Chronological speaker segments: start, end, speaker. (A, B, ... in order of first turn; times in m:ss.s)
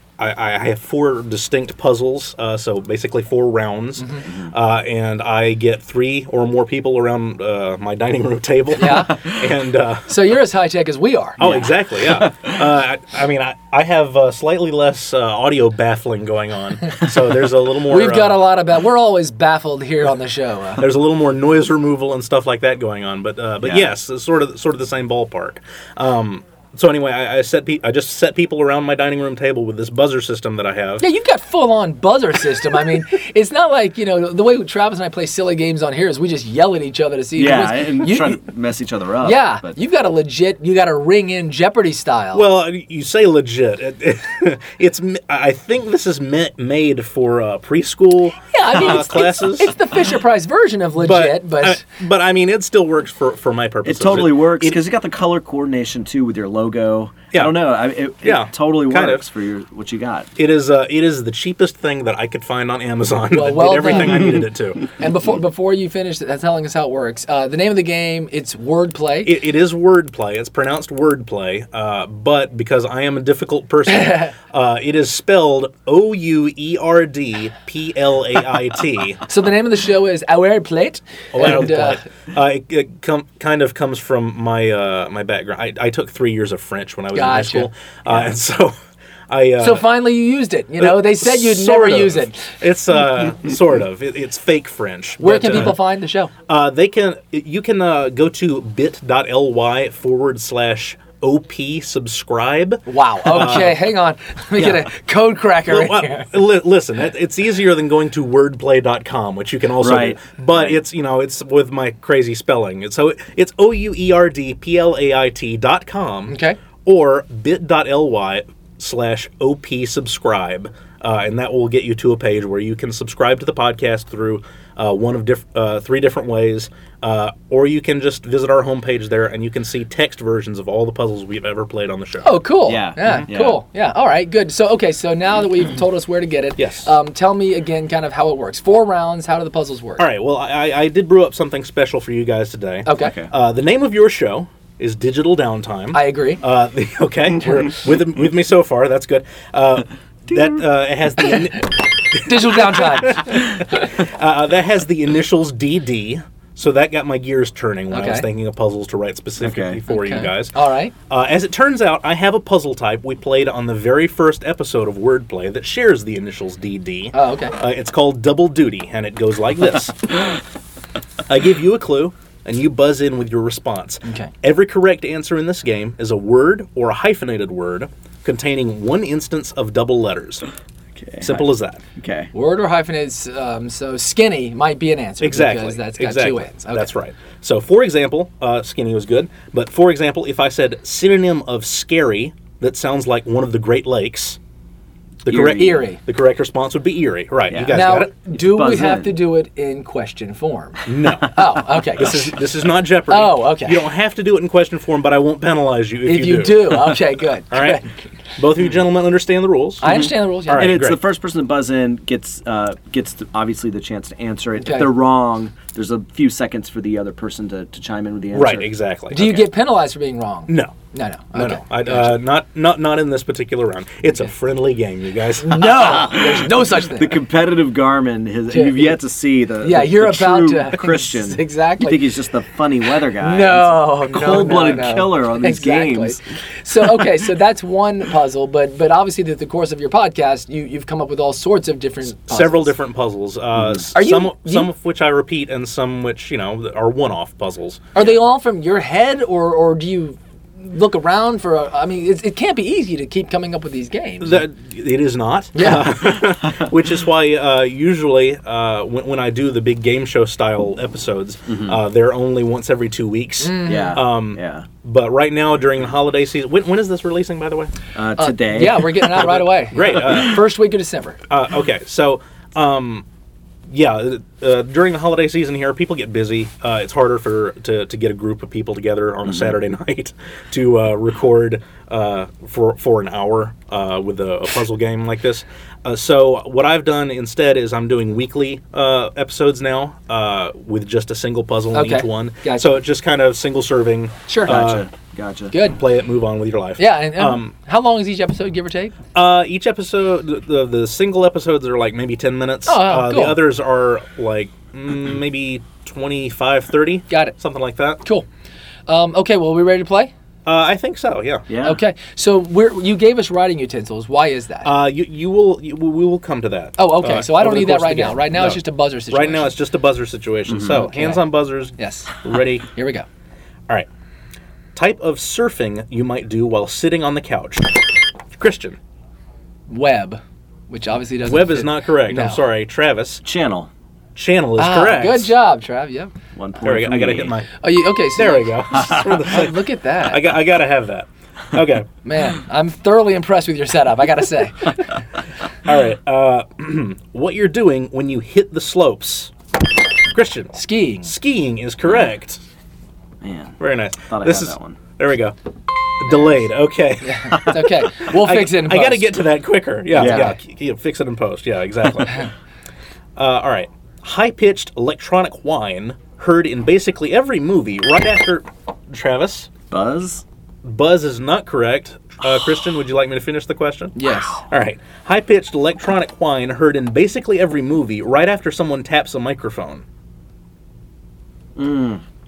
0:00.2-0:10.2 A
0:04.0-0:04.2 B
0:08.8-0:09.2 B
0:10.1-0:11.7 B
0:11.4-0:18.4 A
0:11.4-0:12.4 C
0:17.9-0:20.8 B
0:20.8-0:31.1 A
0:23.6-0:23.9 C
0:31.0-0:38.4 B
0:37.4-0:39.7 C
0:39.2-0:42.4 B
0:42.3-0:49.8 A
0:48.5-0:51.8 B
0:51.0-0:54.8 A
0:53.8-1:00.3 C
0:57.3-0:57.6 A
0:58.2-0:59.3 A
1:00.4-1:04.8 A
1:03.3-1:04.4 B
1:05.0-1:09.4 B
1:09.2-1:19.2 A
1:13.9-1:14.3 B
1:19.3-1:22.0 B
1:21.3-1:28.7 A
1:27.1-1:27.7 B
1:29.3-1:29.9 A
1:29.6-1:32.6 B
1:30.8-1:35.8 A
1:35.2-1:36.3 B
1:36.5-1:43.8 A
1:42.9-1:46.3 B
1:44.6-1:44.9 A
1:45.7-2:12.4 A
1:49.8-1:50.8 C
1:56.3-1:56.6 B
2:12.2-2:20.1 B
2:12.7-2:13.6 C
2:16.6-2:16.9 A
2:20.0-2:40.6 A
2:22.8-2:23.2 B
2:23.0-2:23.3 C
2:25.9-2:26.4 B
2:32.2-2:33.7 B
2:37.9-2:38.3 B
2:39.4-2:39.8 C
2:39.9-2:40.9 B
2:41.1-2:50.3 A
2:47.1-2:47.6 B
2:51.3-3:00.4 A
2:54.0-2:54.3 B
3:01.0-3:02.3 C
3:01.2-3:01.8 A
3:02.3-3:06.9 B
3:05.2-3:14.4 A
3:15.2-3:18.1 A
3:15.3-3:15.9 C
3:15.5-3:16.0 B
3:17.5-3:19.2 C
3:17.7-3:22.4 B
3:20.9-3:21.4 A
3:22.0-3:27.8 A
3:23.1-3:23.9 B
3:26.0-3:27.9 B
3:28.4-3:29.9 A
3:29.8-3:30.7 B
3:29.8-3:39.5 C
3:30.5-3:31.0 A
3:34.6-3:34.9 B
3:38.3-3:39.2 A
3:39.1-3:42.2 B
3:40.5-3:40.7 A
3:41.3-3:46.2 A
3:45.4-3:47.2 B
3:45.7-3:56.2 C
3:48.5-3:49.0 B
3:49.6-3:52.1 B
3:52.9-4:02.8 B
4:02.2-4:07.8 A
4:03.6-4:03.9 C
4:03.9-4:04.7 B
4:07.9-4:14.5 B
4:14.2-4:27.7 A
4:15.6-4:15.9 B
4:21.5-4:21.8 C
4:23.4-4:24.0 B
4:23.6-4:24.7 C
4:28.0-4:29.3 C
4:28.2-4:31.2 B
4:29.1-4:30.4 A
4:31.3-4:33.1 A
4:33.7-4:54.9 A
4:51.7-4:52.7 B
4:54.3-4:54.6 B
4:54.4-4:55.5 C
4:55.5-4:55.8 B
4:55.6-4:57.5 A
4:56.8-4:59.0 B
4:59.1-5:08.0 A
5:02.7-5:03.4 B
5:07.1-5:07.4 B
5:08.9-5:10.1 B
5:10.5-5:11.5 A
5:11.5-5:11.8 C
5:11.6-5:14.7 B
5:14.6-5:22.7 A
5:16.8-5:19.5 B
5:20.5-5:20.8 C
5:20.8-5:21.2 B
5:21.8-5:23.1 B
5:24.8-5:28.8 A
5:29.7-5:32.4 B
5:31.2-5:33.2 A
5:33.2-5:33.7 C
5:34.2-5:35.3 A
5:34.6-5:36.1 B
5:36.4-5:37.4 C
5:36.6-5:37.6 A
5:37.6-5:40.2 B
5:38.2-5:41.9 A
5:42.0-5:45.0 B
5:45.6-5:49.3 A
5:50.1-5:52.4 A
5:50.5-5:51.1 B
5:51.8-5:52.1 C
5:53.2-5:54.8 C
5:53.6-5:55.4 A
5:56.0-5:57.4 A
5:57.0-5:59.1 B
5:58.1-6:02.3 A
5:59.9-6:00.4 B
6:00.0-6:00.3 C
6:03.2-6:09.5 A
6:09.7-6:10.2 C
6:10.6-6:14.0 A
6:14.0-6:14.4 B
6:14.5-6:19.8 A
6:21.6-6:22.0 C